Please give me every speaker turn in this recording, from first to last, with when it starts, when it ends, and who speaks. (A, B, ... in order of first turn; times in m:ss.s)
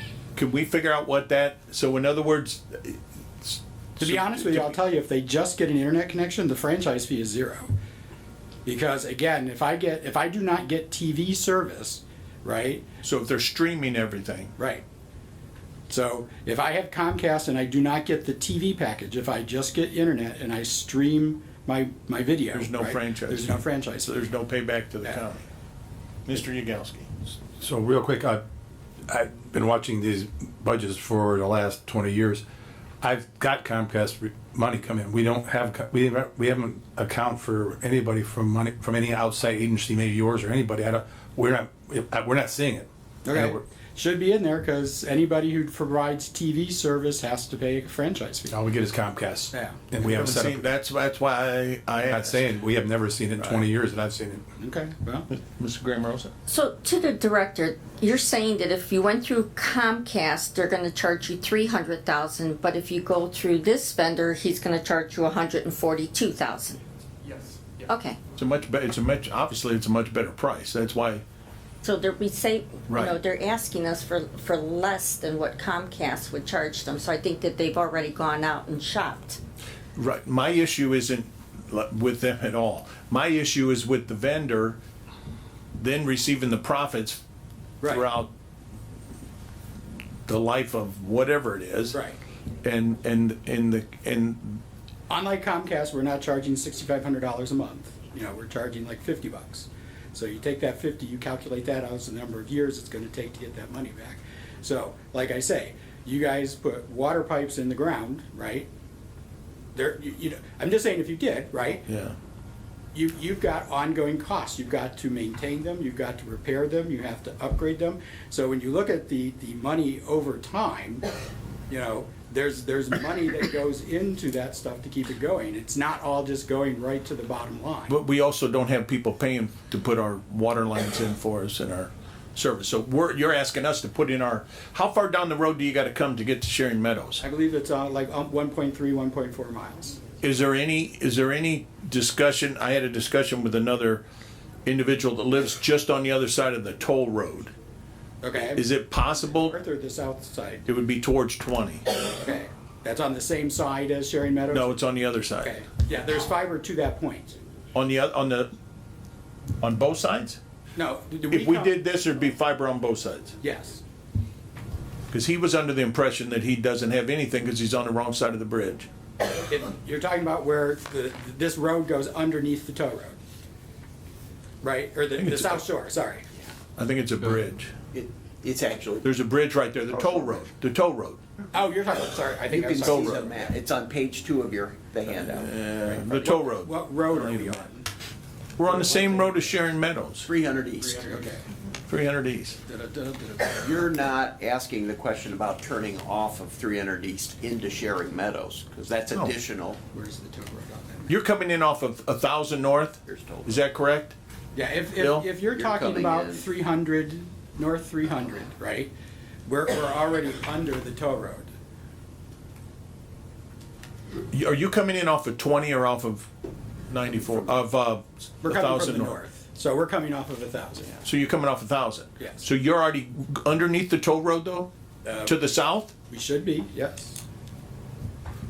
0:00.4-0:04.8 A
0:04.0-0:07.7 B
0:08.6-0:12.8 B
0:13.0-0:14.5 A
0:14.6-0:14.8 B
0:15.9-0:24.1 B
0:22.5-0:25.4 A
0:26.3-0:27.2 A
0:27.6-0:28.4 C
0:29.1-0:32.4 C
0:33.0-0:43.6 C
0:43.2-0:48.6 B
0:48.5-0:50.6 C
0:49.5-0:49.8 B
0:50.0-0:52.5 A
0:52.0-0:54.4 C
0:54.6-0:55.3 B
0:55.3-0:56.3 A
0:56.5-1:06.8 D
1:07.8-1:08.2 D
1:08.4-1:11.2 A
1:11.8-1:19.4 D
1:12.9-1:13.1 A
1:20.0-1:24.8 A
1:25.8-1:27.2 A
1:27.8-1:28.3 A
1:30.3-1:32.0 A
1:31.9-1:32.2 B
1:32.6-1:34.6 A
1:35.1-1:48.7 B
1:49.7-1:51.9 B
1:51.9-1:52.1 A
1:52.9-2:01.0 B
2:01.7-2:07.9 B
2:07.9-2:17.2 A
2:17.2-2:20.0 B
2:20.2-2:24.0 A
2:24.6-2:27.5 A
2:28.2-2:30.6 B
2:28.5-2:29.6 A
2:30.6-2:31.8 A
2:32.1-2:34.8 B
2:34.5-2:35.6 A
2:35.4-2:37.4 B
2:37.7-2:38.5 A
2:39.6-2:40.4 A
2:40.8-2:41.8 B
2:41.3-2:43.4 A
2:43.4-2:43.8 B
2:45.1-2:48.9 A
2:49.5-2:53.2 B
2:54.6-2:56.3 B
2:55.2-2:55.6 A
2:56.8-2:57.7 A
2:57.9-2:59.0 E
2:59.0-3:01.2 A
3:01.5-3:03.5 B
3:02.4-3:05.9 E
3:02.8-3:03.1 A
3:05.1-3:07.6 A
3:05.8-3:07.9 B
3:08.6-3:10.3 A
3:08.7-3:09.1 E
3:10.2-3:11.3 E
3:10.8-3:11.4 B
3:11.9-3:12.6 A
3:12.6-3:13.7 B
3:13.5-3:19.8 E
3:19.9-3:21.1 B
3:21.1-3:24.2 A
3:23.1-3:23.6 E
3:24.5-3:28.9 B
3:25.0-3:25.3 A
3:25.4-3:26.5 E
3:29.4-3:31.5 B
3:34.3-3:36.3 A
3:36.9-3:39.2 A
3:38.4-3:41.0 B
3:41.0-3:44.7 A
3:42.2-3:42.4 B
3:45.0-3:45.4 B
3:45.2-3:45.9 A
3:46.1-3:47.2 B